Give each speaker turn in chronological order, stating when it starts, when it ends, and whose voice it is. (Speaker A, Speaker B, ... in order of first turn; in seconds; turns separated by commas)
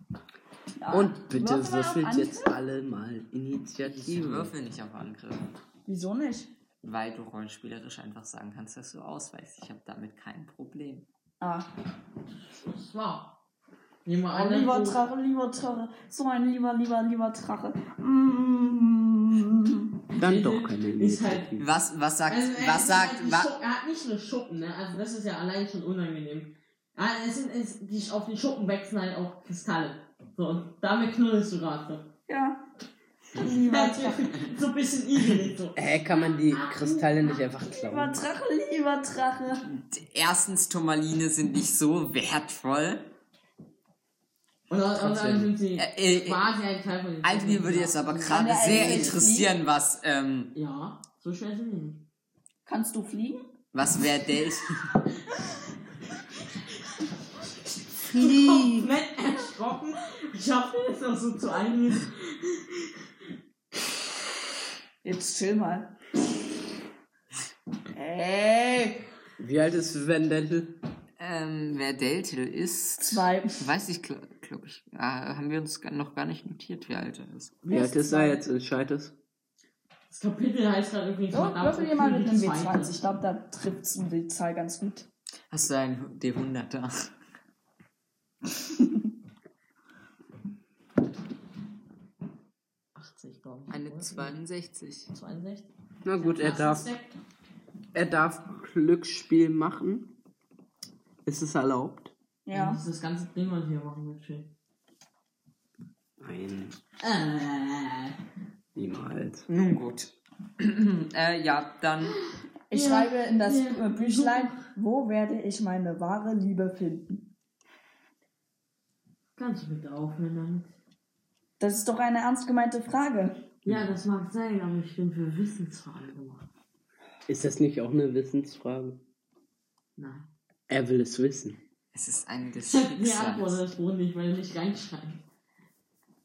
Speaker A: 0.8-2.6, Speaker B: 0.9-4.5, Speaker C: 3.8-5.5, Speaker A: 5.9-6.5, Speaker C: 6.8-11.1, Speaker A: 11.4-11.7, Speaker D: 12.4-13.4, Speaker D: 14.1-15.0, Speaker A: 14.3-19.9, Speaker D: 20.1-21.6, Speaker B: 20.1-21.7, Speaker C: 21.6-23.5, Speaker D: 22.3-32.1, Speaker A: 32.3-32.6, Speaker A: 33.3-34.3, Speaker D: 33.4-37.5, Speaker B: 35.8-38.2, Speaker A: 37.6-39.7, Speaker C: 39.7-43.1, Speaker D: 44.7-49.2, Speaker B: 45.0-45.5, Speaker C: 45.8-46.4, Speaker C: 47.2-50.5, Speaker A: 48.3-49.5, Speaker D: 50.5-52.1, Speaker A: 52.7-53.5, Speaker C: 53.7-55.0, Speaker D: 58.0-63.0, Speaker A: 65.0-66.0, Speaker A: 67.9-69.0, Speaker B: 69.4-70.8, Speaker C: 71.2-77.6, Speaker A: 73.0-73.7, Speaker A: 77.7-78.4, Speaker B: 77.7-79.2, Speaker D: 77.8-78.3, Speaker D: 80.1-83.0, Speaker A: 81.3-85.1, Speaker C: 85.5-87.1, Speaker A: 88.6-89.0, Speaker D: 93.0-94.4, Speaker C: 93.7-95.1, Speaker D: 95.1-97.1, Speaker B: 96.0-96.9, Speaker B: 97.9-100.2, Speaker B: 101.2-102.1, Speaker A: 102.5-102.8, Speaker D: 102.5-104.5, Speaker B: 106.2-106.8, Speaker D: 107.0-108.2, Speaker B: 108.8-109.5, Speaker C: 109.5-112.2, Speaker D: 112.0-114.7, Speaker A: 112.7-117.3, Speaker D: 119.4-120.8, Speaker A: 121.6-123.4, Speaker D: 123.7-126.5, Speaker B: 127.3-129.0, Speaker D: 130.0-130.3, Speaker B: 130.7-131.6, Speaker C: 131.9-133.6, Speaker D: 132.6-135.2